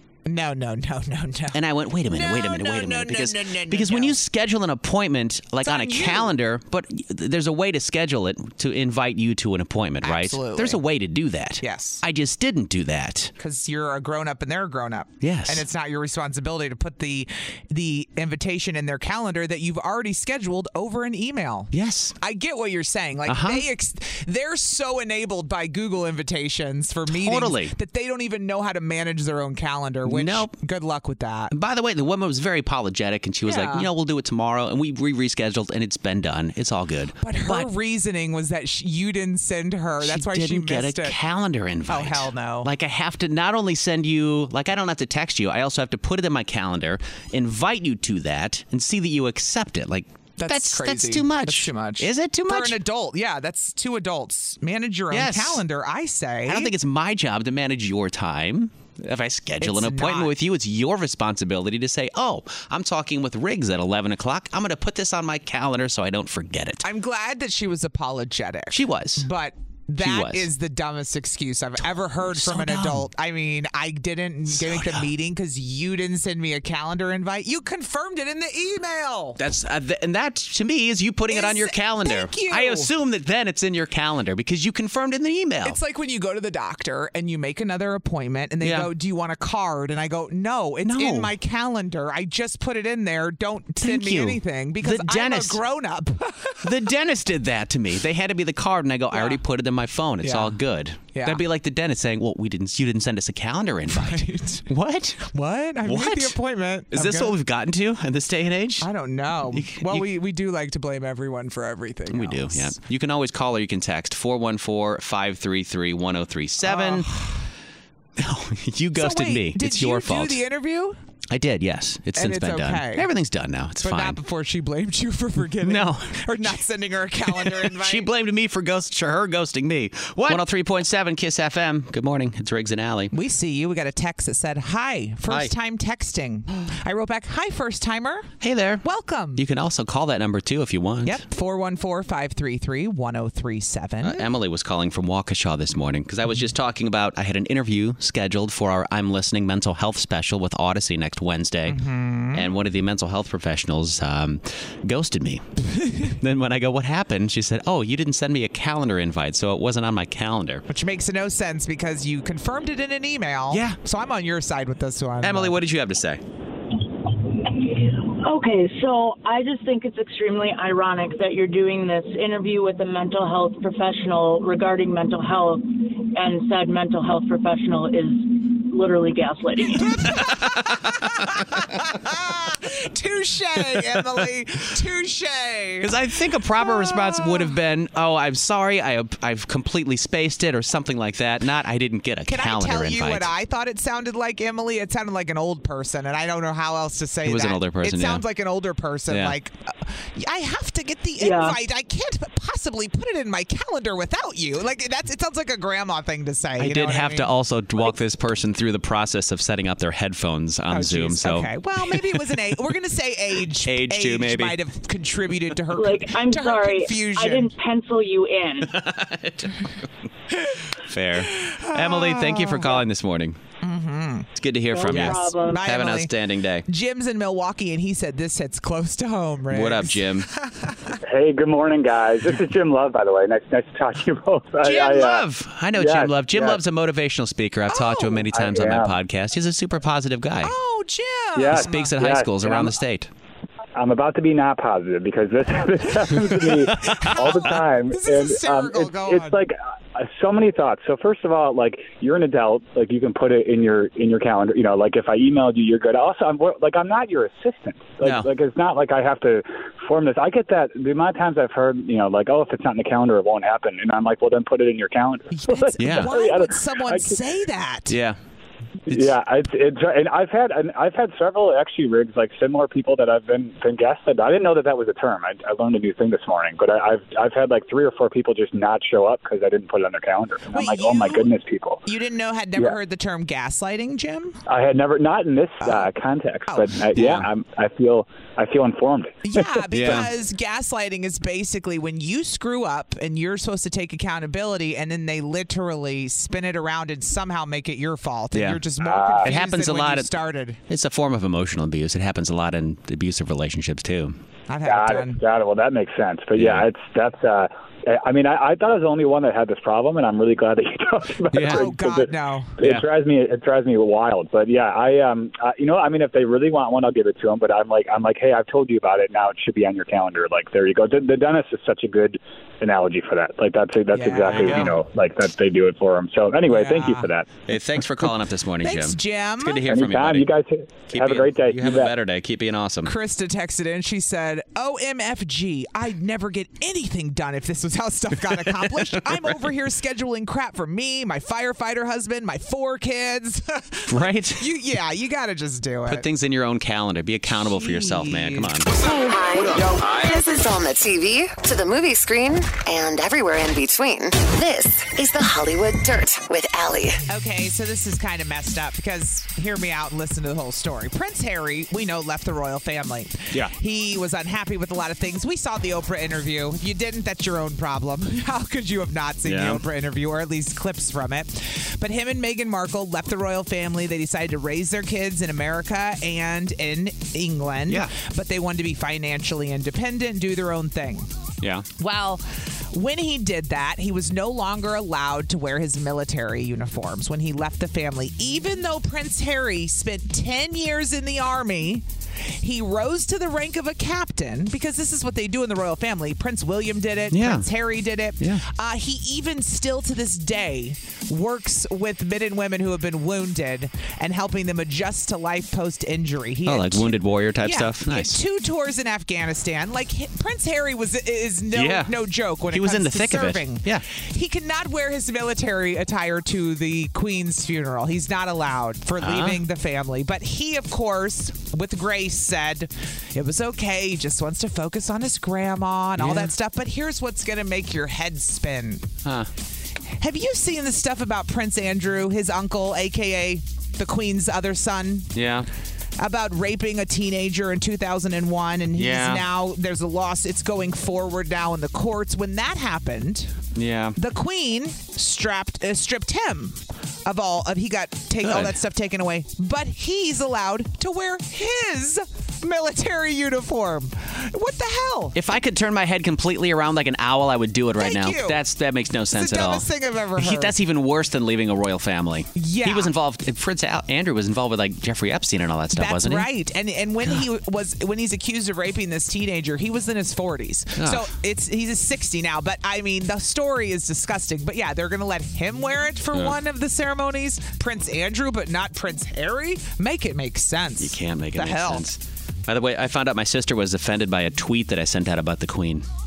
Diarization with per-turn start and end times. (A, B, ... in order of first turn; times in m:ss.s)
0:00.3-0:01.6 A
0:01.5-0:13.3 B
0:02.1-0:04.2 A
0:05.6-0:06.3 A
0:10.0-0:10.8 A
0:11.6-0:12.0 A
0:13.4-0:31.5 A
0:15.2-0:15.6 B
0:21.7-0:22.2 B
0:23.3-0:23.6 B
0:27.1-0:27.7 B
0:30.1-0:30.5 B
0:31.5-0:37.7 B
0:33.5-0:33.9 A
0:37.2-0:41.2 A
0:40.0-0:52.8 B
0:41.9-0:42.7 A
0:50.4-0:56.7 A
0:55.1-0:55.6 B
0:56.5-1:06.8 B
0:59.6-1:00.3 A
1:06.8-1:19.4 A
1:08.7-1:09.3 B
1:10.0-1:10.5 B
1:12.2-1:13.1 B
1:14.6-1:15.1 B
1:19.4-1:25.8 B
1:21.3-1:22.9 A
1:25.6-1:36.6 A
1:28.6-1:28.9 B
1:30.8-1:31.3 B
1:33.8-1:35.6 B
1:36.6-1:45.3 B
1:39.1-1:39.4 A
1:40.2-1:40.6 A
1:41.1-1:41.4 A
1:43.9-1:44.7 A
1:45.3-1:47.3 A
1:45.8-1:46.4 B
1:46.9-1:48.9 B
1:48.8-1:52.8 A
1:49.5-1:50.1 B
1:52.1-1:57.1 B
1:56.6-1:57.3 A
1:58.2-2:00.4 B
1:59.0-2:01.0 A
2:01.3-2:04.2 B
2:02.2-2:03.1 A
2:03.8-2:08.1 A
2:05.6-2:06.6 B
2:07.3-2:13.1 B
2:13.1-2:18.3 A
2:18.4-2:21.2 B
2:18.8-2:19.4 A
2:21.0-2:24.3 A
2:24.0-2:31.8 B
2:31.7-2:32.5 A
2:32.3-2:35.4 B
2:35.8-2:36.1 A
2:36.0-2:40.6 B
2:40.7-2:45.6 A
2:43.5-2:43.8 B
2:45.2-2:46.2 B
2:47.5-3:00.1 C
2:59.8-3:05.9 A
3:00.2-3:00.8 B
3:03.7-3:04.2 B
3:05.8-3:13.3 B
3:06.6-3:07.5 A
3:12.3-3:27.3 A
3:17.2-3:18.2 B
3:19.1-3:19.4 B
3:21.2-3:21.6 C
3:26.6-3:32.6 B
3:30.7-3:37.5 A
3:33.6-3:34.6 B
3:35.7-3:38.7 C
3:38.6-3:39.9 B
3:40.8-3:43.4 B
3:41.3-3:42.8 A
3:43.6-3:44.3 A
3:44.4-3:46.7 B
3:44.7-3:45.6 C
3:44.9-3:46.1 A
3:46.7-3:50.9 A
3:49.5-3:50.3 B
3:51.0-3:56.6 D
3:54.6-4:00.5 B
3:57.7-3:58.3 A
3:58.3-3:58.9 D
4:00.4-4:02.7 A
4:01.4-4:02.7 D
4:01.5-4:03.1 B
4:03.8-4:27.2 D
4:06.3-4:07.6 B
4:06.9-4:09.4 A
4:18.0-4:18.3 B
4:25.3-4:28.0 A
4:25.8-4:26.2 B
4:27.9-4:28.2 B
4:28.9-4:29.2 B
4:28.9-4:41.8 D
4:40.5-4:41.3 A
4:41.8-4:44.4 A
4:44.5-4:49.2 D
4:45.6-4:45.9 A
4:46.5-4:47.2 A
4:47.0-4:47.3 B
4:49.2-5:00.6 A
4:49.7-4:50.1 B
4:58.3-4:58.6 B
4:58.8-4:59.3 D
4:59.2-5:00.1 B
5:00.7-5:04.2 B
5:04.5-5:05.2 A
5:04.6-5:27.4 D
5:06.4-5:06.7 B
5:11.3-5:11.8 B
5:11.4-5:12.6 A
5:12.6-5:12.9 B
5:23.9-5:24.8 A
5:24.2-5:24.8 B
5:26.5-5:27.1 A
5:27.5-5:30.3 B
5:28.6-5:29.7 A
5:29.7-5:31.9 D
5:30.9-5:32.9 B
5:32.8-5:46.1 A
5:38.3-5:39.5 B
5:43.9-5:44.4 B
5:45.9-5:48.7 B
5:47.3-5:48.6 A
5:48.8-5:57.0 E
5:57.1-6:21.1 A
6:09.2-6:09.6 B
6:21.8-7:08.9 A
6:37.1-6:37.5 B
6:46.5-6:48.2 B
6:51.5-6:51.9 B
6:52.5-6:53.8 B
6:59.0-6:59.4 B
7:06.0-7:06.3 B
7:10.0-7:15.1 A
7:15.2-7:15.5 B
7:16.0-7:23.3 A
7:18.8-7:19.2 B
7:23.6-7:24.0 B
7:24.0-7:35.2 A
7:28.2-7:28.6 B
7:35.2-7:46.3 B
7:37.8-7:38.4 A
7:39.1-7:40.5 A
7:42.4-7:42.9 A
7:45.7-8:01.8 A
7:50.8-7:51.1 B
8:00.8-8:05.8 B